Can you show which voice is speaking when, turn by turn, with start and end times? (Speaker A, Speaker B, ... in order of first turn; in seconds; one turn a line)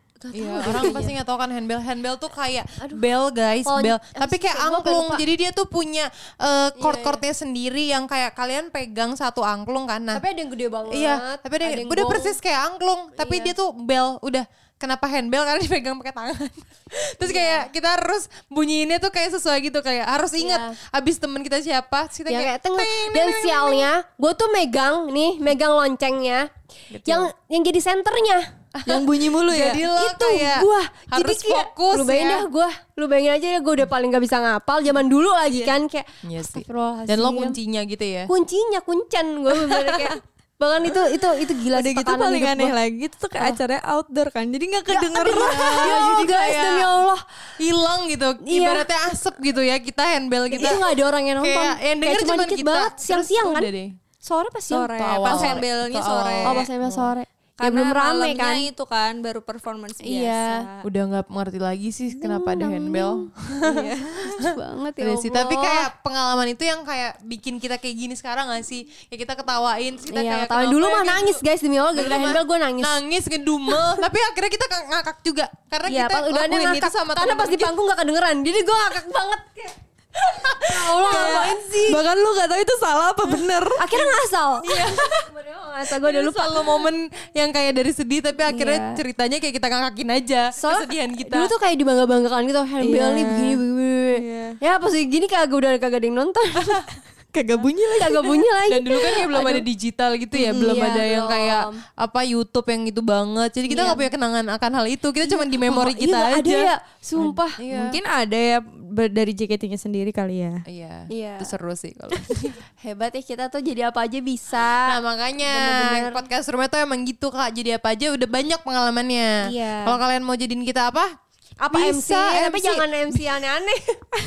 Speaker A: 0.2-1.2
Speaker B: 0.3-10.2
Speaker A: 3.6-5.2
Speaker A: 6.8-7.2
Speaker A: 10.1-12.4
Speaker B: 10.9-23.9
Speaker A: 13.2-13.5
Speaker A: 17.2-17.7
Speaker A: 20.4-20.8
Speaker A: 22.3-26.5
Speaker B: 26.9-27.3
Speaker A: 27.1-28.5
Speaker B: 28.8-32.5
Speaker C: 28.9-29.9
Speaker A: 29.9-37.6
Speaker B: 36.2-38.3
Speaker A: 38.3-42.8
Speaker B: 39.6-40.1
Speaker C: 41.7-45.9
Speaker A: 44.9-47.2
Speaker B: 45.4-46.9
Speaker B: 47.6-50.8
Speaker A: 48.4-48.9
Speaker A: 50.5-53.7
Speaker B: 51.4-54.0
Speaker A: 54.2-55.6
Speaker C: 54.7-56.7
Speaker B: 55.0-57.1
Speaker A: 56.4-58.7
Speaker C: 57.6-60.9
Speaker A: 60.0-60.7
Speaker B: 60.8-71.4
Speaker A: 62.2-63.3
Speaker C: 63.7-64.3
Speaker A: 64.2-65.9
Speaker A: 70.1-73.0
Speaker B: 72.0-77.7
Speaker A: 73.7-74.0
Speaker A: 75.9-79.8
Speaker A: 80.3-82.0
Speaker B: 80.7-81.5
Speaker C: 81.1-84.2
Speaker A: 83.8-86.9
Speaker B: 84.7-85.2
Speaker B: 85.9-91.5
Speaker A: 88.5-89.0
Speaker A: 90.5-96.8
Speaker C: 92.8-93.6
Speaker C: 94.1-94.6
Speaker C: 97.3-98.4
Speaker A: 98.0-99.7
Speaker B: 98.6-108.0
Speaker C: 100.4-101.0
Speaker A: 100.5-101.8
Speaker A: 103.7-104.1
Speaker A: 105.2-107.6
Speaker C: 107.7-110.6
Speaker B: 110.7-112.6
Speaker A: 111.1-111.5
Speaker A: 112.8-116.2
Speaker B: 114.8-121.1
Speaker A: 119.4-120.0
Speaker A: 121.6-124.0
Speaker B: 121.7-123.4